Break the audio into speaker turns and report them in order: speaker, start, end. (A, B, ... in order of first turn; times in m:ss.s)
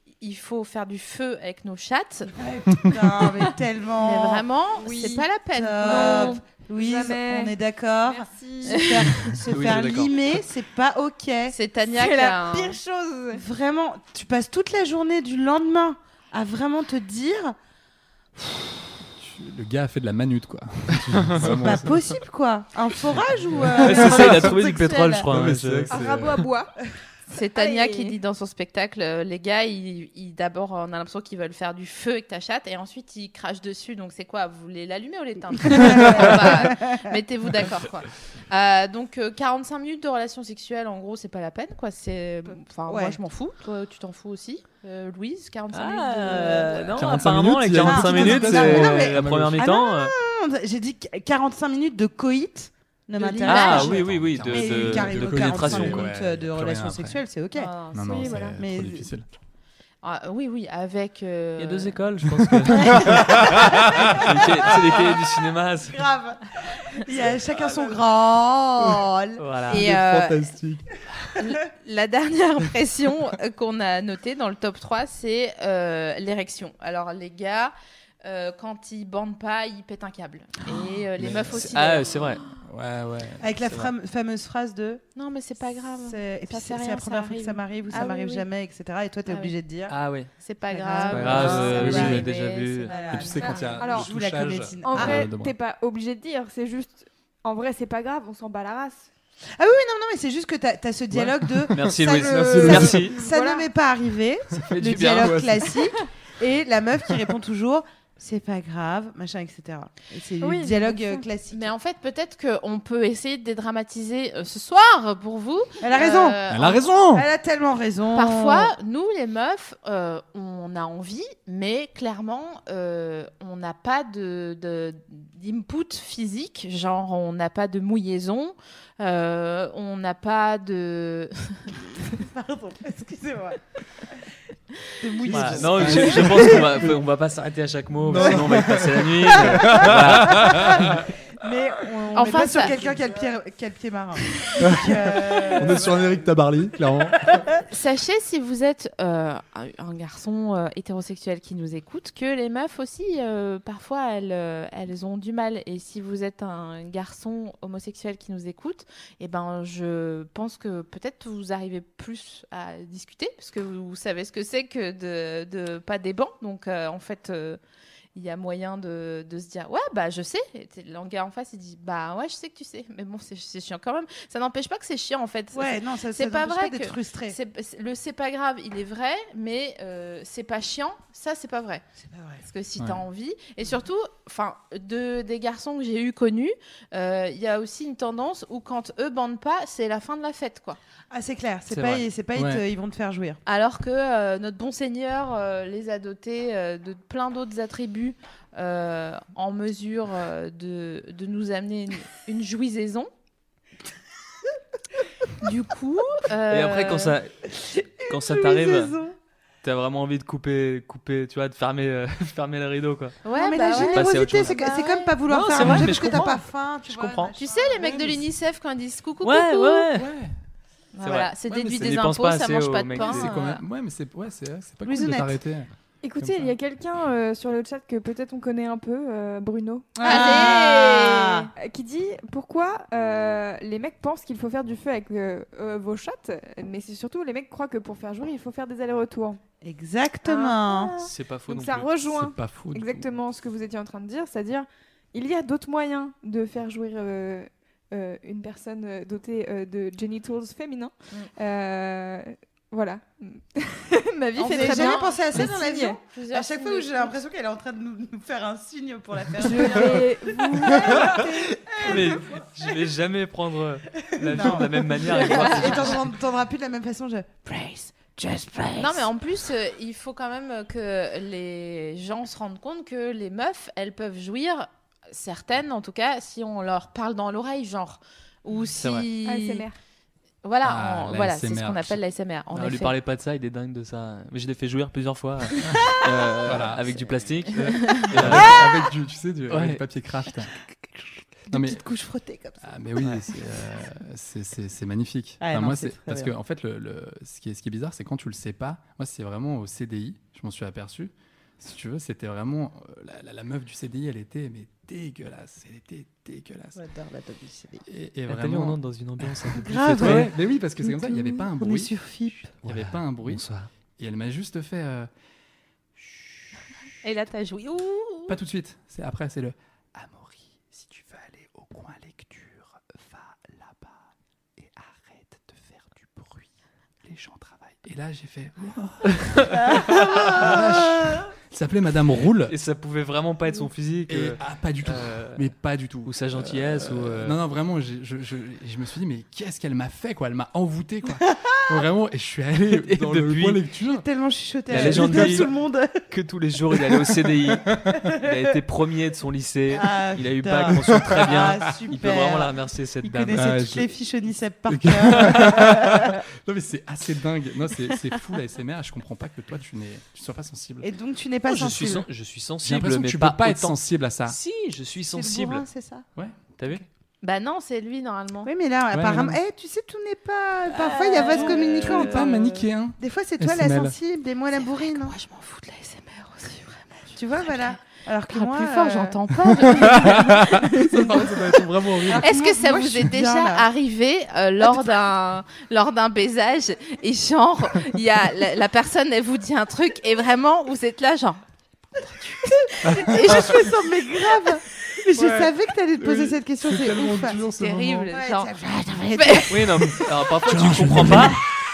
0:00.2-0:02.3 A
0:02.3-0:04.5 B
0:04.0-0:06.4 A
0:04.8-0:05.3 C
0:05.5-0:11.6 B
0:05.8-0:07.6 C
0:08.1-0:09.0 C
0:08.7-0:09.4 A
0:09.5-0:10.1 D
0:11.5-0:12.8 A
0:11.9-0:13.4 C
0:13.3-0:17.6 B
0:19.2-0:22.1 E
0:21.4-0:25.3 B
0:23.1-0:24.5 E
0:23.8-0:26.0 D
0:25.3-0:26.5 E
0:25.9-0:26.7 C
0:27.3-0:46.9 A
0:27.6-0:28.2 C
0:35.6-0:37.2 B
0:42.9-0:43.2 B
0:45.7-0:50.2 D
0:46.3-0:46.7 B
0:47.0-0:49.7 E
0:47.7-0:57.7 B
0:53.4-0:56.1 D
0:53.5-0:57.2 E
0:53.5-0:54.0 A
0:57.6-0:58.3 A
0:57.9-0:59.2 E
0:58.0-0:58.6 C
0:58.6-0:59.1 B
1:00.0-1:02.0 A
1:01.6-1:06.0 D
1:02.4-1:05.2 E
1:05.9-1:09.9 B
1:09.4-1:09.8 D
1:09.7-1:11.3 E
1:09.7-1:10.4 A
1:11.4-1:22.3 A
1:21.2-1:21.8 E
1:21.5-1:22.4 D
1:22.5-1:23.6 E
1:23.4-1:25.0 B
1:25.2-1:28.5 A
1:26.0-1:29.9 B
1:29.3-1:29.5 A
1:29.9-1:30.3 D
1:30.4-1:33.8 A
1:30.7-1:32.2 B
1:31.1-1:32.9 D
1:31.3-1:32.3 E
1:32.9-1:35.3 B
1:33.1-1:35.6 E
1:33.8-1:34.1 C
1:34.8-1:39.1 C
1:39.6-1:51.7 B
1:41.1-1:43.2 E
1:41.7-1:43.2 D
1:43.1-1:43.6 C
1:44.7-1:45.5 D
1:44.9-1:45.8 E
1:50.4-1:51.2 C
1:51.5-1:56.9 A
1:55.8-1:56.4 B
1:56.5-1:57.3 E
1:57.1-1:58.7 B
1:58.1-2:11.7 A
2:11.8-2:14.2 B
2:14.9-2:16.9 B
2:15.2-2:17.0 E
2:15.3-2:21.0 D
2:18.0-2:21.1 E
2:18.2-2:18.6 B
2:20.3-2:26.2 B
2:22.1-2:22.8 A
2:24.6-2:27.5 E
2:27.7-2:47.6 A
2:48.2-3:01.8 A
2:55.5-2:57.4 B
3:02.0-3:02.4 B
3:02.4-3:10.8 A
3:11.1-3:13.4 B
3:11.7-3:12.1 D
3:12.4-3:12.6 E
3:13.5-3:23.1 A
3:25.4-3:27.2 A
3:26.5-3:29.0 D
3:27.6-3:29.2 B
3:29.6-3:33.2 D
3:33.2-3:35.2 A
3:33.3-3:38.2 B
3:33.8-3:34.6 D
3:35.3-3:37.3 D
3:37.4-3:39.9 A
3:39.2-3:40.1 D
3:40.0-3:40.3 E
3:40.9-3:43.6 A
3:41.0-3:43.3 D
3:41.6-3:41.9 E
3:43.0-3:46.5 E
3:44.8-3:45.4 B
3:46.0-3:50.7 C
3:50.0-3:51.5 B
3:50.0-3:51.5 A
3:51.6-3:59.4 C
3:59.6-4:00.9 B
4:00.2-4:16.0 C
4:01.0-4:01.9 D
4:02.0-4:03.2 E
4:14.4-4:22.7 B
4:14.5-4:17.1 A
4:19.4-4:22.2 C
4:21.8-4:26.1 D
4:24.0-4:29.1 B
4:25.6-4:25.9 A
4:28.8-4:39.7 A
4:38.8-4:39.1 D
4:39.2-4:39.8 C
4:40.4-4:42.9 A
4:40.6-4:42.0 E
4:42.5-4:48.7 D
4:45.6-4:50.5 E
4:47.6-4:48.0 A
4:48.3-4:48.8 B
4:49.5-4:49.8 D
4:51.5-4:52.8 B
4:51.5-4:51.8 E
4:52.6-5:06.8 E
4:55.4-4:56.3 B
5:06.8-5:07.8 B
5:07.9-5:11.9 E
5:08.3-5:10.3 D
5:09.6-5:12.5 B
5:12.6-5:13.4 E
5:12.6-5:13.7 D
5:14.0-5:15.1 E
5:16.0-5:16.5 E
5:17.0-5:18.4 A
5:18.3-5:24.0 E
5:24.6-5:26.5 E
5:27.0-5:32.6 E
5:29.2-5:29.8 D
5:29.8-5:30.5 B
5:32.4-5:35.5 D
5:34.1-5:44.0 E
5:36.0-5:37.4 D
5:41.2-5:41.8 B
5:42.7-5:43.6 D
5:43.8-5:46.0 B
5:44.7-5:45.5 E
5:44.7-5:45.5 D
5:46.1-5:53.5 D
5:47.7-5:48.1 E
5:48.2-5:48.4 B
5:49.7-5:56.2 B
5:50.7-5:51.8 E
5:53.3-5:53.9 E
5:54.7-6:00.9 E
6:00.8-6:02.1 B
6:01.5-6:05.6 D
6:02.6-6:04.4 E
6:05.1-6:06.0 B
6:06.6-6:06.8 D
6:07.2-6:08.5 A
6:08.4-6:15.2 B
6:08.9-6:09.4 E
6:11.1-6:11.5 A
6:11.2-6:12.4 D
6:11.4-6:14.0 E
6:14.6-6:17.8 A
6:17.1-6:21.4 B
6:18.3-6:21.6 A
6:19.6-6:22.3 E
6:22.0-6:23.7 B
6:22.2-6:31.4 A
6:32.1-6:33.7 A
6:32.5-6:37.4 B
6:32.8-6:33.5 E
6:35.1-6:38.1 E
6:37.5-6:38.5 A
6:38.1-6:40.0 B
6:39.1-6:39.6 A
6:39.5-6:41.4 D
6:40.4-6:41.4 E